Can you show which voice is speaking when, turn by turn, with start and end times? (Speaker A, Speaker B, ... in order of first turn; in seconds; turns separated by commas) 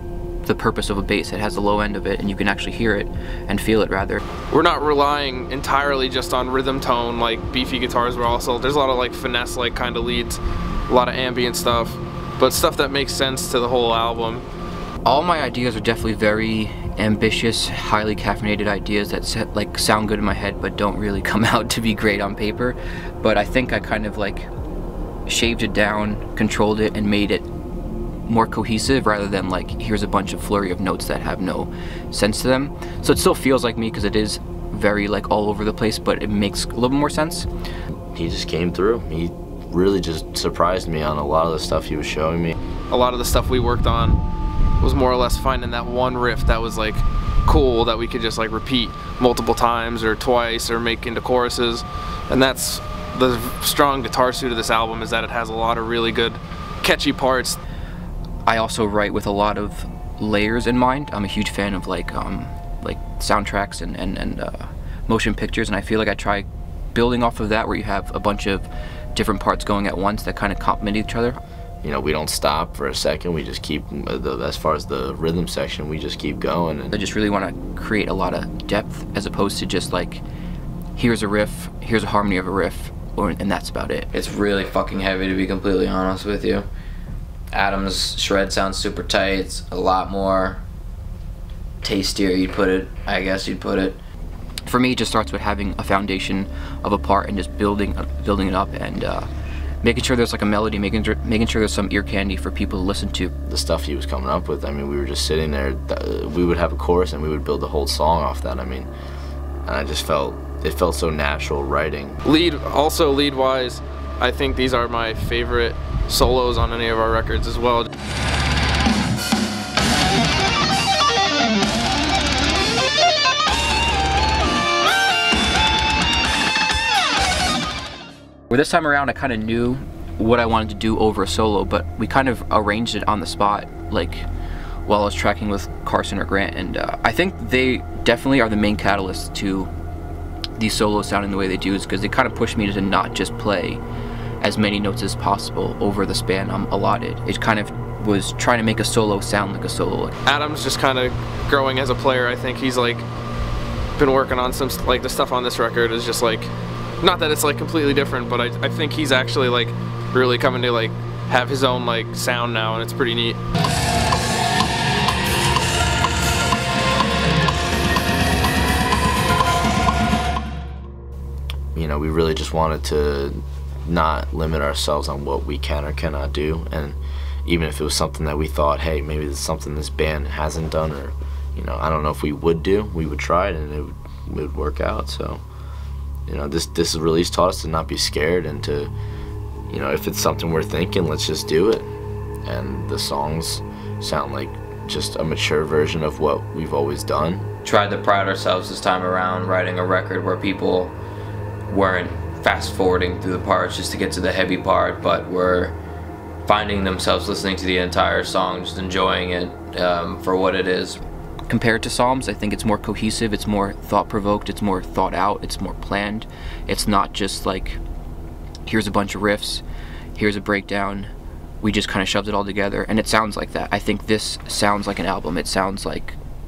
Speaker A: 0.4-4.2, Speaker B: 4.5-14.4, Speaker A: 15.0-24.5, Speaker A: 25.3-27.5, Speaker A: 28.3-37.5, Speaker C: 38.1-42.5, Speaker B: 42.9-44.2, Speaker B: 44.8-57.6, Speaker A: 58.5-71.4, Speaker C: 71.8-77.0, Speaker A: 76.9-80.2, Speaker A: 81.0-84.1, Speaker D: 84.1-86.7, Speaker D: 87.5-90.6, Speaker D: 91.8-94.0, Speaker A: 94.7-99.3, Speaker A: 99.8-103.3, Speaker C: 103.5-108.9, Speaker C: 109.7-112.2, Speaker B: 112.2-117.9, Speaker A: 128.5-134.3, Speaker A: 134.9-139.7, Speaker A: 140.6-143.8, Speaker A: 144.4-150.1, Speaker B: 150.2-153.1, Speaker B: 154.0-163.4, Speaker C: 171.8-185.4, Speaker C: 186.3-188.9, Speaker C: 189.7-191.9, Speaker C: 192.4-197.5, Speaker D: 197.7-201.0, Speaker D: 201.7-205.8, Speaker D: 206.5-211.0, Speaker A: 211.5-217.8, Speaker A: 218.7-219.6, Speaker A: 220.2-226.2